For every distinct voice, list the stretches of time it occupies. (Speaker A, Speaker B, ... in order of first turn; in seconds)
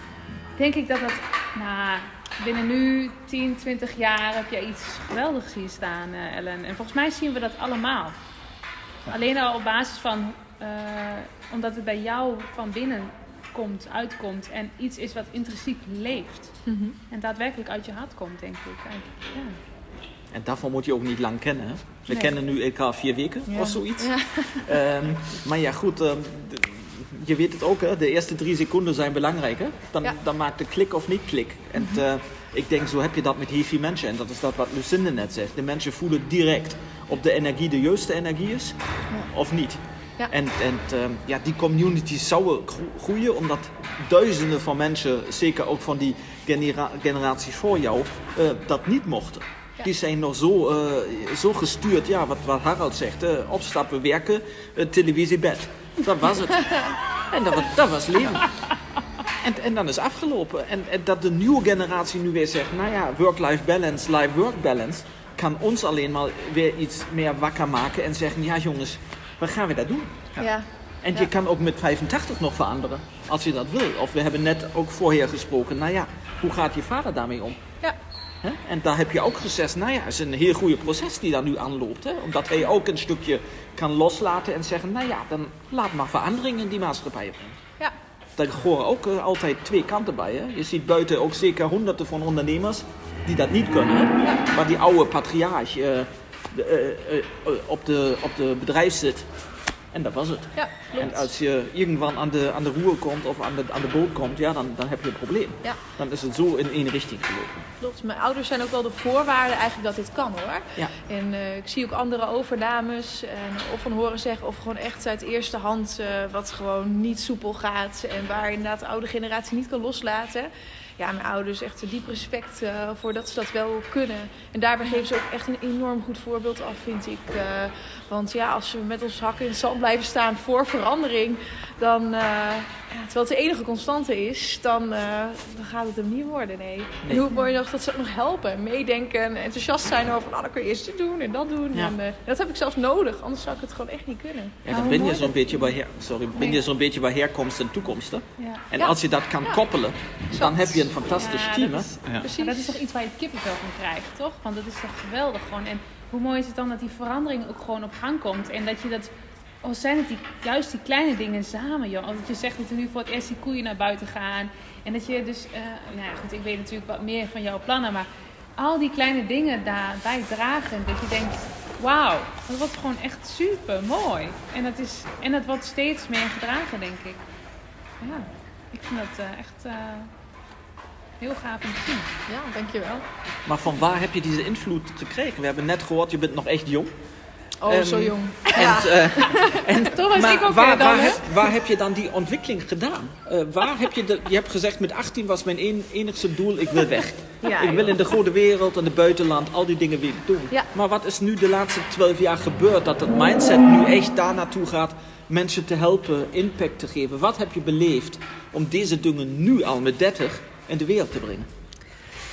Speaker A: 0.6-8.2, 9.1-16.6, 17.1-19.6, 144.7-145.6, 148.4-148.7, 151.1-159.1, 159.6-177.2, 178.7-180.1, 181.2-182.1, 189.9-191.3
Speaker B: 16.7-17.0, 23.5-24.8, 31.8-32.0, 70.4-71.3, 100.6-101.3, 107.8-145.4, 148.8-149.6, 150.3-150.8, 152.2-152.8, 182.3-183.1, 187.6-189.9, 197.4-197.9
Speaker C: 20.3-38.8, 39.3-58.5, 59.4-70.3, 71.0-77.6, 78.4-87.6, 88.4-99.3, 99.9-107.7, 144.7-151.9, 183.5-186.9, 187.7-211.5